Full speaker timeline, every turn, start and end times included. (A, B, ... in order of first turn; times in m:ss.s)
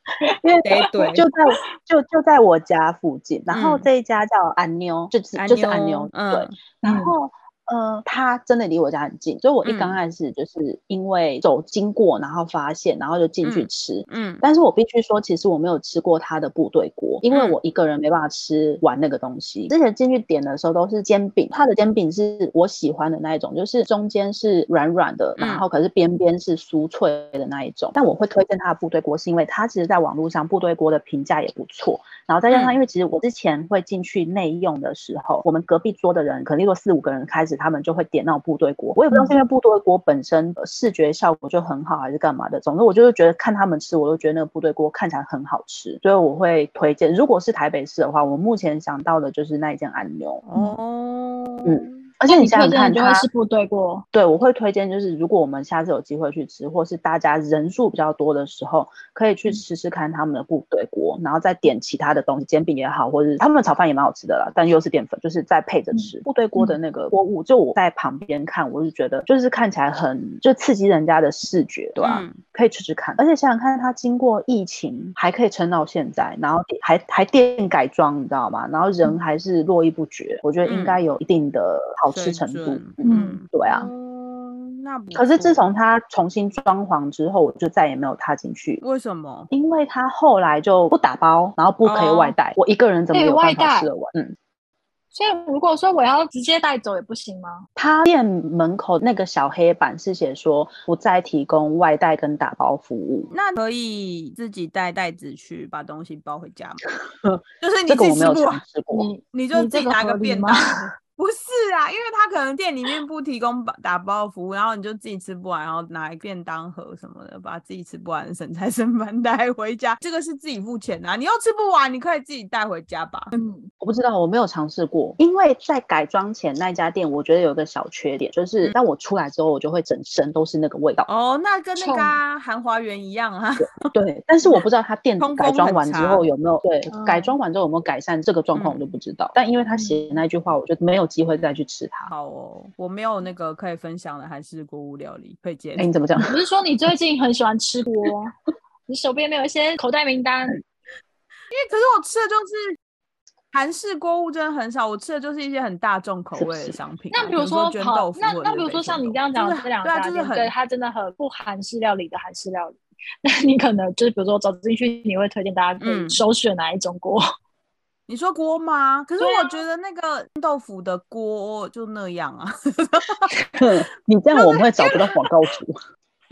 0:00.3-0:50.4 A
0:00.6-0:01.2 B
0:03.5-0:03.8 B
0:05.4-0:06.6 B
0:06.8-0:07.1 C
0:09.6-0:10.0 B
0:13.4-0:14.4 B
0:17.3-0:17.6 B
0:25.4-0:25.6 B
0:32.5-0:32.8 B
0:50.4-0:52.0 B
0:51.6-0:53.2 A
0:52.3-0:54.0 C
0:54.1-1:23.9 A
1:05.9-1:06.8 C
1:12.0-1:12.4 B
1:20.6-1:21.0 B
1:22.1-1:25.6 B
1:23.0-1:23.4 C
1:25.1-1:28.8 A
1:28.8-1:29.5 B
1:29.5-1:34.4 A
1:31.8-1:32.4 B
1:33.1-1:33.9 C
1:35.1-1:37.6 C
1:37.8-1:43.3 A
1:43.3-1:46.8 B
1:47.1-1:49.1 A
1:47.6-1:48.6 B
1:48.9-1:50.8 C
1:49.3-2:03.3 B
2:03.3-2:03.7 C
2:03.8-2:11.1 A
2:11.0-2:13.9 B
2:11.8-2:12.2 C
2:13.6-2:22.1 A
2:15.2-2:16.2 B
2:16.9-2:17.4 C
2:18.5-2:18.9 B
2:19.7-2:20.2 C
2:22.1-2:25.9 B
2:25.8-2:26.3 A
2:26.2-2:28.3 C
2:28.9-2:30.6 C
2:31.5-2:32.8 B
2:33.5-2:40.5 B
2:36.4-2:36.8 A
2:37.1-2:47.2 C
2:45.8-2:46.2 B
2:48.1-2:53.3 B
2:49.2-2:49.6 C
2:53.6-2:55.8 A
2:54.4-2:55.1 C
2:54.8-2:55.1 B